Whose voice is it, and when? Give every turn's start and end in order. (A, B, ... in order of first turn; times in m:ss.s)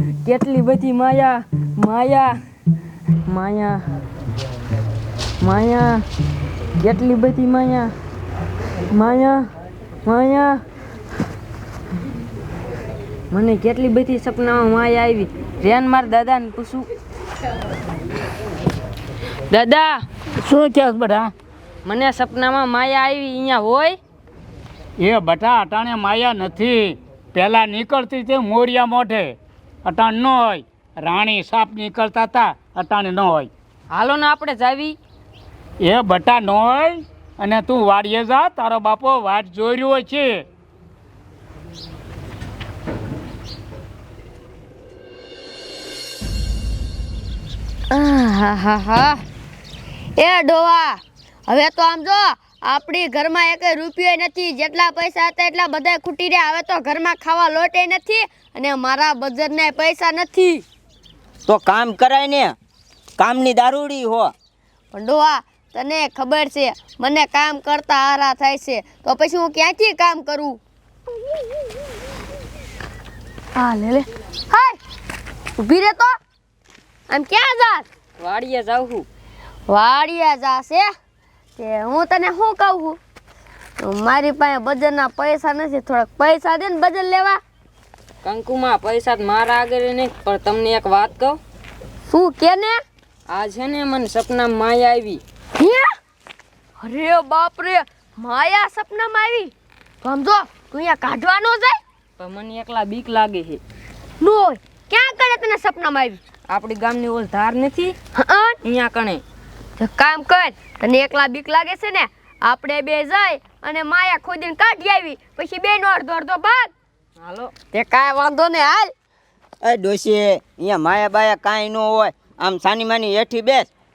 0:00.2-0:02.4 A
0:03.3-0:03.8 A
0:05.4-0:06.0 A
0:06.8-0:07.9 A
0:08.9-0:09.4 A
0:10.0-0:10.6 A
0:13.3-0:16.9 A
0:19.5-0:20.0 A
0:20.6-0:21.3 B
0:21.8-0:24.0 A
0:25.0-0:33.5 B
0:33.9-0:35.0 A
0:35.8-0:40.4 B
0:47.9-0:49.2 C
0:50.2-1:00.6 C
1:01.5-1:02.6 D
1:03.2-1:04.3 D
1:04.9-1:10.6 C
1:13.6-1:14.8 C
1:15.6-1:16.2 C
1:17.1-1:17.9 C
1:18.2-1:19.1 A
1:19.7-1:20.9 C
1:21.6-1:23.0 C
1:23.8-1:27.4 C
1:28.2-1:31.4 A
1:32.1-1:32.8 C
1:33.3-1:35.2 A
1:35.6-1:35.9 C
1:36.8-1:41.8 C
1:42.2-1:43.6 A
1:44.2-1:46.2 C
1:46.5-1:48.0 A
1:48.2-1:48.6 C
1:48.6-1:49.2 A
1:49.8-1:56.7 C
1:57.2-1:57.5 A
1:57.7-1:58.9 C
1:59.6-2:03.7 D